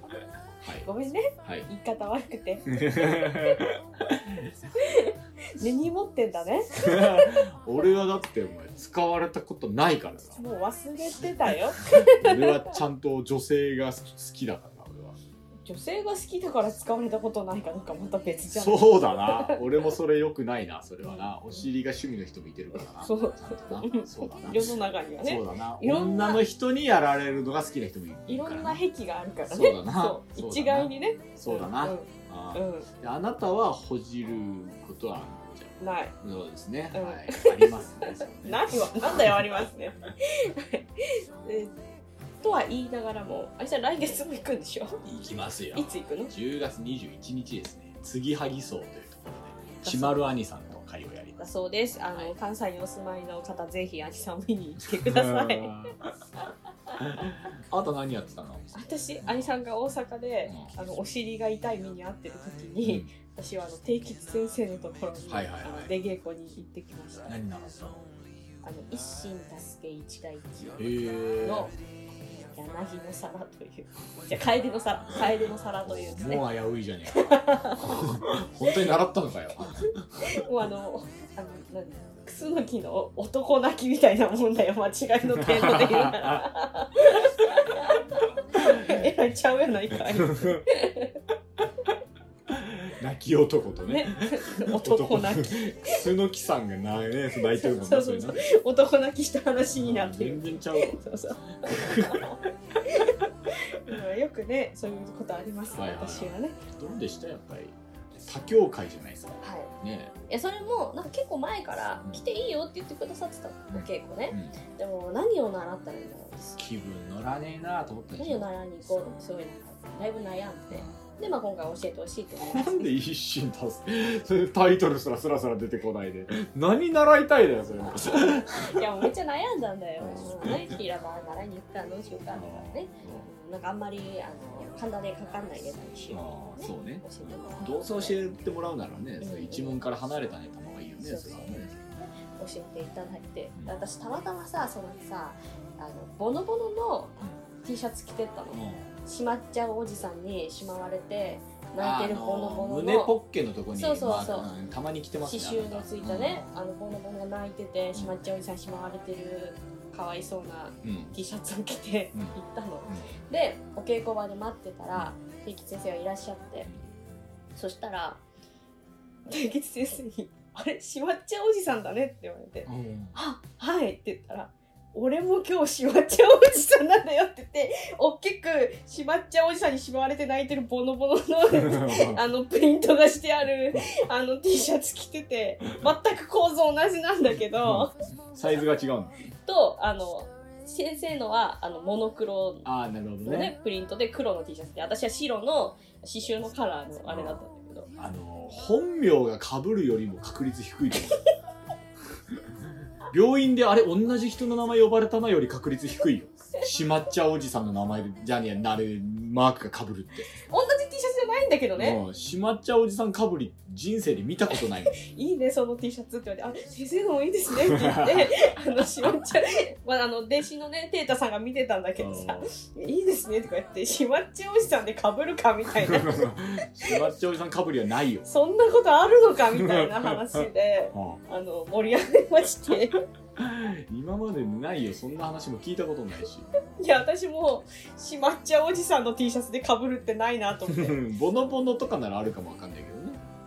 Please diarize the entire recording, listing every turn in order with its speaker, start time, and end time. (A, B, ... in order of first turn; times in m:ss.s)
0:00.6-0:00.9 A
0:00.8-0:02.7 B
0:01.4-0:01.7 A
0:02.7-0:04.7 A
0:04.8-0:07.4 B
0:06.8-0:10.4 A
0:10.4-0:12.8 B
0:12.0-0:15.2 A
0:15.7-0:19.6 B
0:18.5-0:28.8 A
0:21.0-0:21.3 B
0:22.9-0:26.4 B
0:28.3-0:32.9 B
0:29.5-0:39.7 A
0:35.8-0:36.2 B
0:36.9-0:41.8 B
0:42.4-0:45.0 B
0:45.0-0:51.5 A
0:45.7-0:46.3 B
0:49.8-0:50.3 B
0:51.4-0:55.7 B
0:54.8-0:56.1 A
0:57.0-0:59.5 A
0:58.7-1:07.4 B
1:00.5-1:00.8 A
1:02.8-1:03.1 A
1:05.3-1:05.9 A
1:07.3-1:08.1 A
1:08.6-1:10.8 B
1:10.8-1:11.7 A
1:11.4-1:16.5 B
1:15.8-1:20.2 A
1:17.1-1:18.4 B
1:19.9-1:31.2 B
1:25.4-1:26.5 A
1:28.6-1:29.0 A
1:30.1-1:30.6 A
1:32.5-1:38.4 A
1:33.9-1:36.0 B
1:37.6-1:46.6 B
1:39.8-1:42.4 A
1:45.7-1:50.2 A
1:49.4-1:49.7 B
1:50.3-1:56.6 B
1:53.7-1:54.6 A
1:56.6-1:58.5 A
1:58.2-2:02.9 B
2:00.7-2:01.0 A
2:02.4-2:08.8 A
2:08.0-2:18.2 B
2:10.0-2:10.8 A
2:12.3-2:13.3 A
2:16.1-2:22.0 A
2:19.2-2:19.8 B
2:21.0-2:21.6 B
2:22.1-2:33.2 B
2:28.5-2:28.9 A
2:31.8-2:36.5 A
2:33.7-2:34.5 B
2:35.2-2:46.7 B
2:40.8-2:41.2 A
2:42.9-2:43.1 A
2:47.6-2:48.2 B
2:49.3-3:08.0 B
2:52.7-2:53.2 A
3:01.5-3:02.2 A
3:07.6-3:09.2 A
3:09.5-3:12.7 B
3:12.6-3:13.5 A
3:13.2-3:17.9 B
3:17.1-3:17.4 A
3:18.0-3:21.2 A
3:23.0-3:30.4 A
3:30.5-3:32.0 B
3:31.8-3:35.0 A
3:34.9-3:47.0 B
3:37.6-3:38.5 A
3:42.0-3:42.5 A
3:45.7-3:48.3 A
3:48.3-3:53.0 B
3:49.5-3:51.2 A
3:53.4-3:56.5 A
3:56.8-4:01.0 B
4:00.7-4:03.2 A